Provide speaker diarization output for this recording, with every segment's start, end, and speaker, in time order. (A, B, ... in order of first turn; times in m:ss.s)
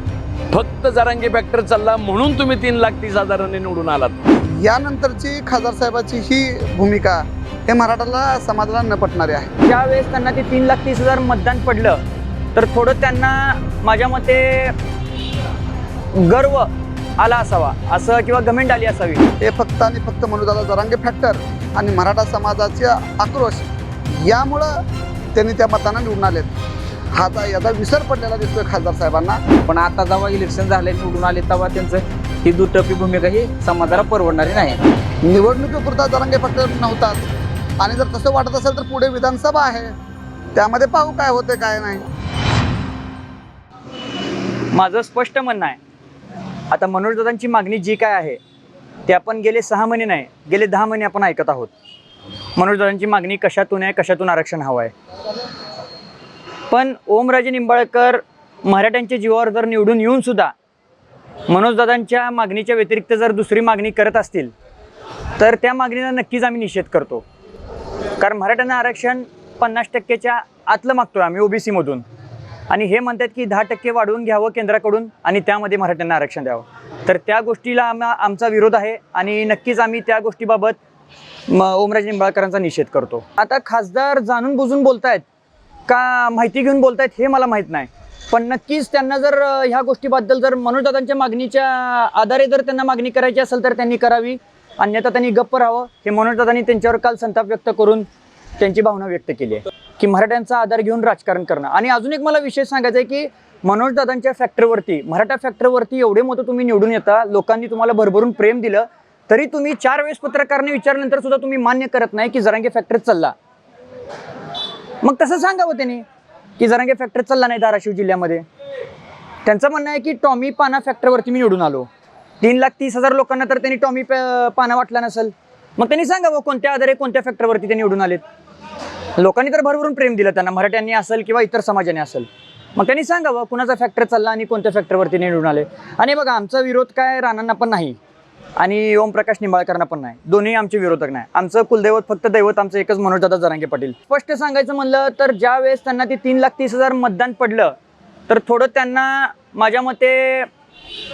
0:00.5-0:04.2 A
0:04.4-0:09.5 B
0:09.6-0:12.0 C
0:12.6-0:14.8 C
0:16.2-0:16.7 C
0:17.2-0:19.2 C
0:19.4-0:24.7 B
0:25.3-0:26.5 B
0:27.1-0:29.4 B
0:29.7-0:34.8 D
0:35.2-0:37.2 B
0:37.8-0:39.9 B
0:40.6-0:42.0 B
0:44.7-0:45.8 C
0:46.7-0:48.4 C
0:49.1-0:51.7 C
0:52.6-0:54.9 C
0:56.7-1:00.5 C
1:01.5-1:04.5 C
1:05.4-1:07.2 C
1:08.2-1:12.0 C
1:12.7-1:20.8 C
1:21.5-1:25.2 C
1:25.9-1:38.1 C
1:38.6-1:53.3 C
1:55.0-1:56.0 C
1:56.6-1:58.4 C
1:59.4-2:01.9 C
2:02.4-2:08.2 C
2:09.2-2:18.0 C
2:18.6-2:27.7 C
2:28.3-2:30.5 C